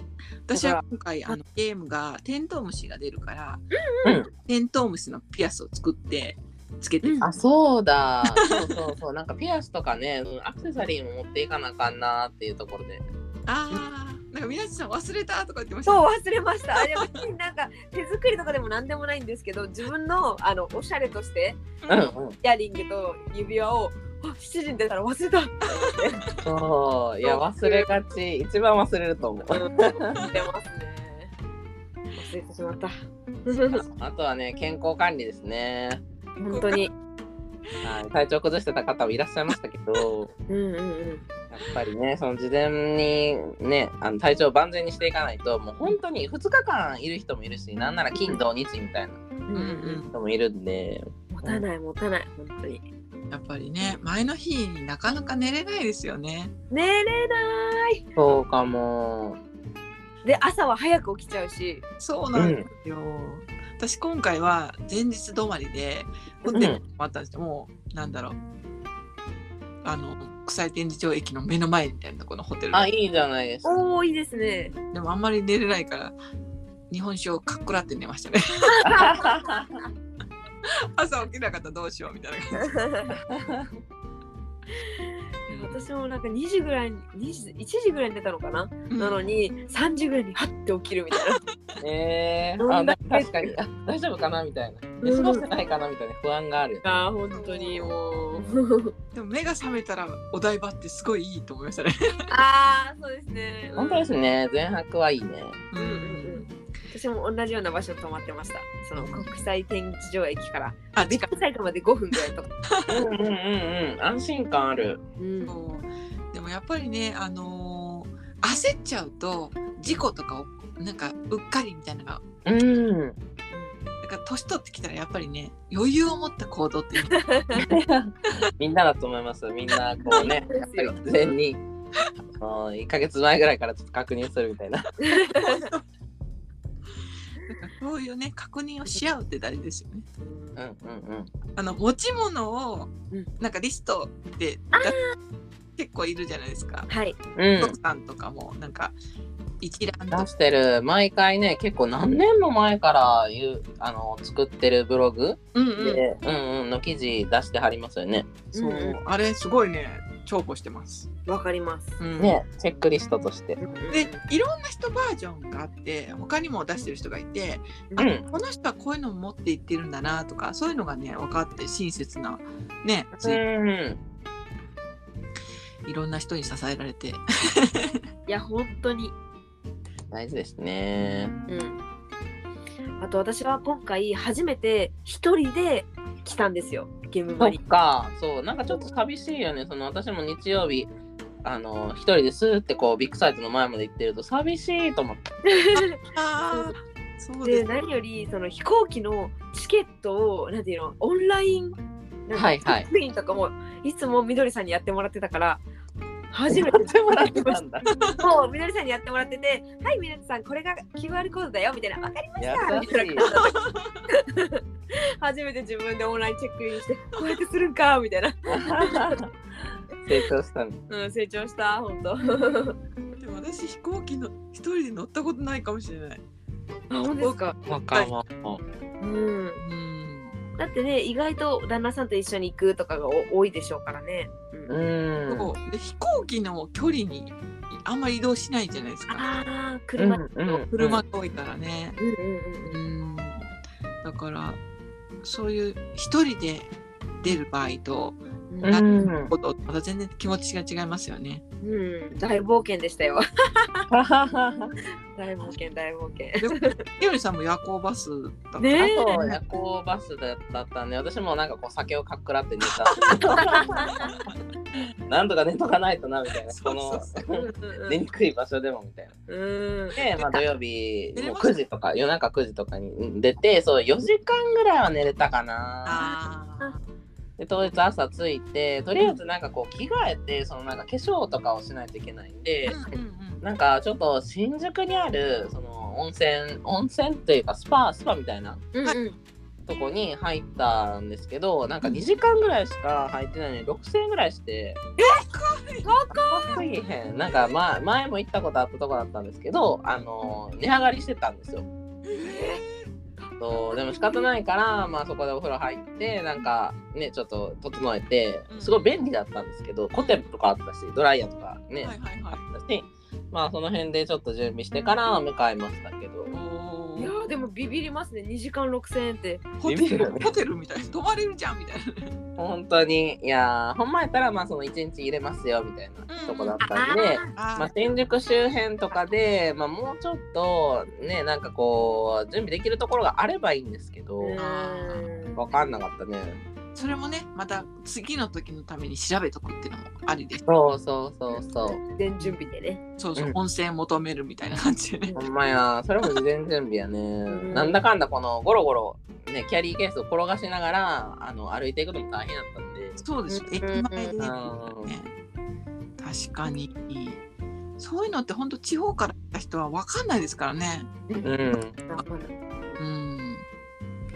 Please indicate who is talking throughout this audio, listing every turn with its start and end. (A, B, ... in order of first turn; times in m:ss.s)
0:00.5-0:03.7 A
0:00.5-0:01.4 B
0:03.7-0:04.2 B
0:04.0-0:04.3 C
0:04.4-0:07.2 A
0:07.0-0:07.3 B
0:07.2-0:13.0 C
0:08.4-0:08.7 A
0:13.5-0:16.0 A
0:15.8-0:21.6 B
0:16.7-0:17.2 A
0:21.8-0:22.1 A
0:21.9-0:22.4 C
0:22.4-0:26.2 B
0:25.7-0:26.4 A
0:26.4-0:30.2 C
0:27.2-0:27.9 B
0:29.5-0:31.3 B
0:32.1-0:32.9 B
0:33.4-0:33.8 B
0:33.7-0:36.0 C
0:36.4-0:36.9 B
0:36.5-0:36.9 A
0:37.8-0:40.3 C
0:40.5-0:41.2 B
0:41.5-0:49.2 C
0:48.1-0:48.4 B
0:49.5-0:50.0 B
0:49.5-0:50.1 A
0:50.1-0:51.6 C
0:51.3-0:52.8 B
0:53.3-0:56.5 A
0:56.7-0:58.0 B
0:58.2-0:59.4 C
1:00.2-1:01.8 B
1:02.0-1:08.4 A
1:02.3-1:02.6 C
1:06.5-1:06.8 C
1:09.8-1:12.9 A
1:12.7-1:13.8 C
1:13.6-1:14.7 B
1:14.9-1:16.2 A
1:16.9-1:18.9 A
1:18.7-1:19.6 B
1:18.8-1:19.8 C
1:20.6-1:22.8 A
1:22.6-1:23.1 B
1:23.3-1:23.7 C
1:25.5-1:25.9 A
1:25.5-1:31.4 B
1:28.9-1:29.3 A
1:31.8-1:36.9 C
1:32.6-1:33.5 B
1:35.0-1:35.5 B
1:36.8-1:38.9 B
1:37.3-1:38.4 A
1:39.1-1:42.3 A
1:42.3-1:44.1 B
1:43.8-1:45.6 C
1:45.7-1:46.6 A
1:45.8-1:52.5 B
1:49.0-1:49.3 A
1:50.9-1:51.4 A
1:52.1-1:53.0 A
1:52.9-1:55.0 C
1:55.2-1:55.5 B
1:55.4-2:02.2 A
2:02.4-2:03.2 C
2:03.5-2:03.8 B
2:04.0-2:07.7 A
2:07.1-2:07.6 B
2:07.6-2:11.6 C
2:10.0-2:11.0 B
2:12.4-2:14.9 C
2:15.0-2:15.7 B
2:15.4-2:15.8 A
2:17.5-2:20.0 A
2:20.2-2:20.6 B
2:20.6-2:21.3 C
2:21.6-2:25.0 A
2:24.7-2:25.1 B
2:25.8-2:26.9 A
2:26.9-2:27.2 B
2:27.4-2:27.8 C
2:27.6-2:29.0 A
2:29.6-2:30.3 A
2:30.1-2:38.4 C
2:35.5-2:36.0 A
2:38.5-2:41.1 A
2:38.5-2:39.0 B
2:41.2-2:42.0 B
2:42.0-2:42.4 A
2:42.2-2:43.6 C
2:43.6-2:44.2 B
2:43.9-2:53.4 A
2:48.0-2:48.3 C
2:53.2-2:54.0 C
2:55.8-2:58.0 A
2:58.3-2:59.1 B
3:00.1-3:01.3 C
3:01.0-3:01.7 A
3:01.5-3:01.8 B
3:03.0-3:07.6 B
3:07.4-3:10.9 C
3:11.4-3:15.2 C
3:15.4-3:16.0 B
3:15.7-3:17.9 A
3:17.4-3:25.6 B
3:22.3-3:22.9 C
3:26.3-3:27.6 B
3:26.5-3:27.9 C
3:27.9-3:28.2 A
3:28.2-3:33.6 B
3:32.4-3:33.3 C
3:33.2-3:34.0 A
3:34.1-3:39.2 B
3:38.5-3:39.3 C
3:40.0-3:40.8 C
3:40.9-3:42.8 B
3:43.2-3:46.2 A
3:46.9-3:47.6 B
3:47.7-3:48.6 C
3:49.0-3:49.6 B
3:49.6-3:50.4 A
3:50.6-3:54.8 B
3:54.7-3:55.5 C
3:55.3-3:59.3 A
3:59.1-4:00.6 B
4:00.0-4:01.0 C
4:00.7-4:02.0 A
4:02.0-4:02.8 B
4:02.6-4:03.5 A
4:04.0-4:04.6 A
4:05.2-4:06.7 A
4:07.2-4:11.4 A
4:08.5-4:08.8 B
4:08.6-4:09.3 C
4:11.6-4:13.9 B
4:13.9-4:14.7 C
4:15.1-4:16.8 B
4:16.4-4:18.8 A
4:18.6-4:19.4 B
4:18.8-4:23.9 C
4:23.0-4:24.1 B
4:23.5-4:24.3 A
4:25.0-4:29.1 C
4:26.5-4:27.2 A
4:27.3-4:28.0 B
4:29.3-4:30.4 B
4:29.9-4:36.0 C
4:31.1-4:31.6 A
4:35.8-4:36.8 A
4:36.0-4:36.8 B
4:37.4-4:42.8 C
4:42.7-4:43.4 A
4:43.4-4:48.6 C
4:48.7-4:49.2 B
4:49.7-4:54.8 C
4:55.0-4:55.2 B
4:55.0-4:55.9 A
4:55.8-4:56.6 B
4:56.3-5:01.6 C
5:02.1-5:02.6 B
5:02.1-5:02.9 A
5:03.2-5:04.3 B
5:03.4-5:11.9 C
5:08.5-5:08.9 A
5:11.8-5:12.5 A
5:12.5-5:16.3 C
5:16.3-5:17.3 A
5:17.0-5:19.5 B
5:19.6-5:22.1 A
5:19.6-5:20.3 C
5:22.4-5:34.4 C
5:26.1-5:26.6 A
5:26.6-5:27.3 B
5:27.3-5:27.8 A
5:34.2-5:35.4 B
5:34.4-5:35.1 A
5:35.4-5:36.4 C
5:36.7-5:40.4 A
5:40.4-5:41.8 C
5:41.3-5:42.8 B
5:43.0-5:45.1 A
5:45.2-5:53.0 C
5:47.3-5:47.8 B
5:53.0-5:55.1 A
5:53.3-5:54.1 B
5:54.2-5:54.9 C
5:56.0-5:57.2 A
5:57.8-6:00.9 A
6:01.2-6:01.8 C
6:01.9-6:02.8 B
6:02.8-6:03.4 A